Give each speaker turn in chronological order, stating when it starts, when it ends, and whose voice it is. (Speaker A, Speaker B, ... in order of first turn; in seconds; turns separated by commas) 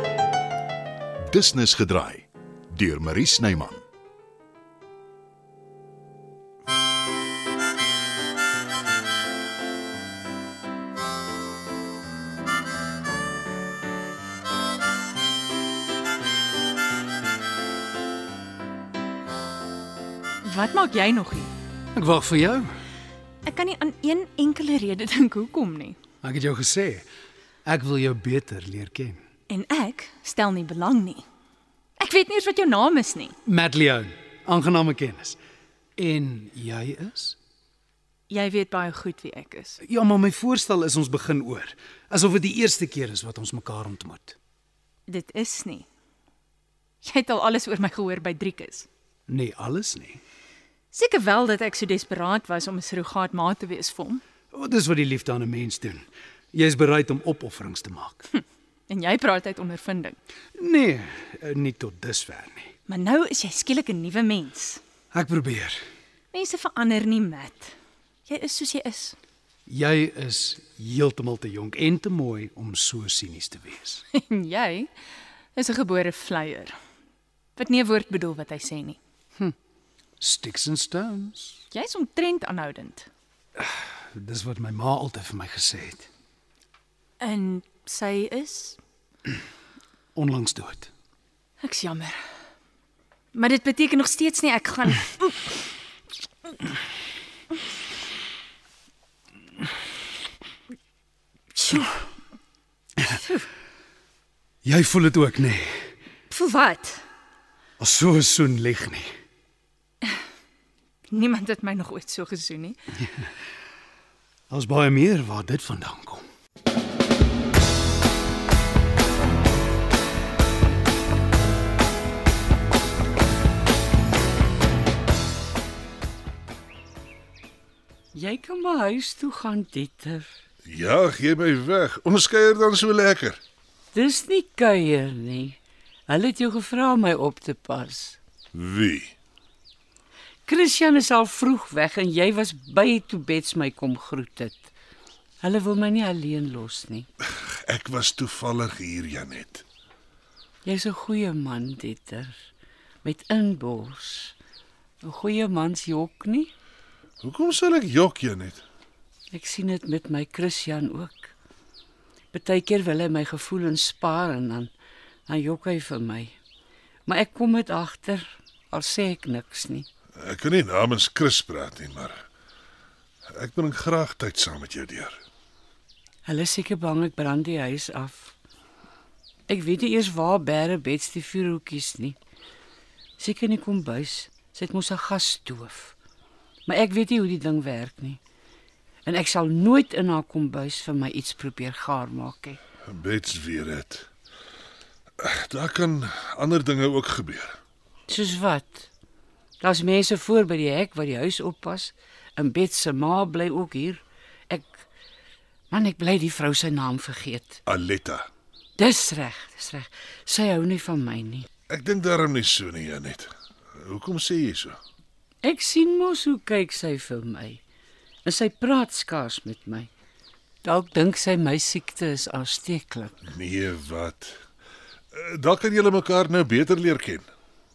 Speaker A: 1.2-3.8, Speaker B: 20.4-21.5, Speaker C: 21.9-22.7, Speaker B: 23.4-26.0, Speaker C: 26.2-27.1, Speaker C: 27.6-29.2, Speaker B: 29.5-31.2, Speaker B: 32.0-33.4, Speaker C: 33.5-35.4, Speaker C: 36.0-37.4, Speaker B: 38.3-39.8, Speaker C: 39.8-44.4, Speaker B: 45.1-45.9, Speaker B: 47.0-48.9, Speaker C: 49.3-50.2, Speaker B: 50.9-54.2, Speaker C: 54.5-58.2, Speaker B: 58.3-60.2, Speaker C: 60.5-62.7, Speaker B: 62.9-64.8, Speaker C: 65.1-65.8, Speaker B: 66.3-67.7, Speaker B: 68.3-69.2, Speaker C: 69.7-74.0, Speaker B: 74.1-74.9, Speaker B: 75.5-76.8, Speaker B: 77.5-79.0, Speaker C: 80.2-81.6, Speaker B: 81.7-83.1, Speaker C: 83.6-86.1, Speaker B: 87.2-88.8, Speaker C: 90.1-90.9, Speaker B: 91.6-92.2, Speaker B: 93.3-95.5, Speaker B: 101.5-102.0, Speaker C: 104.6-105.9, Speaker B: 106.3-107.0, Speaker C: 107.8-109.1, Speaker B: 111.1-112.8, Speaker C: 114.5-116.2, Speaker D: 128.1-130.3, Speaker E: 130.7-133.4, Speaker D: 133.9-135.6, Speaker D: 136.1-138.2, Speaker E: 138.5-139.1, Speaker D: 140.5-144.7, Speaker D: 145.4-147.1, Speaker E: 147.3-149.6, Speaker D: 150.6-152.3, Speaker D: 153.0-154.3, Speaker D: 155.0-156.5, Speaker E: 157.2-158.6, Speaker D: 159.3-161.3, Speaker D: 162.3-164.7, Speaker D: 165.3-166.3, Speaker D: 167.1-169.8, Speaker E: 170.2-172.2, Speaker E: 173.3-175.2, Speaker D: 176.2-178.3, Speaker D: 179.5-182.2, Speaker D: 183.2-185.9, Speaker D: 186.7-188.2, Speaker D: 189.0-192.6, Speaker E: 192.9-194.1, Speaker E: 195.2-197.6, Speaker D: 198.1-198.9, Speaker D: 199.6-204.8, Speaker D: 205.7-207.6, Speaker E: 207.7-208.3, Speaker D: 208.8-211.5, Speaker E: 211.7-213.3, Speaker E: 213.8-214.8, Speaker D: 215.4-217.6, Speaker D: 218.2-219.9, Speaker D: 220.6-223.1, Speaker E: 223.3-224.3, Speaker E: 225.1-227.3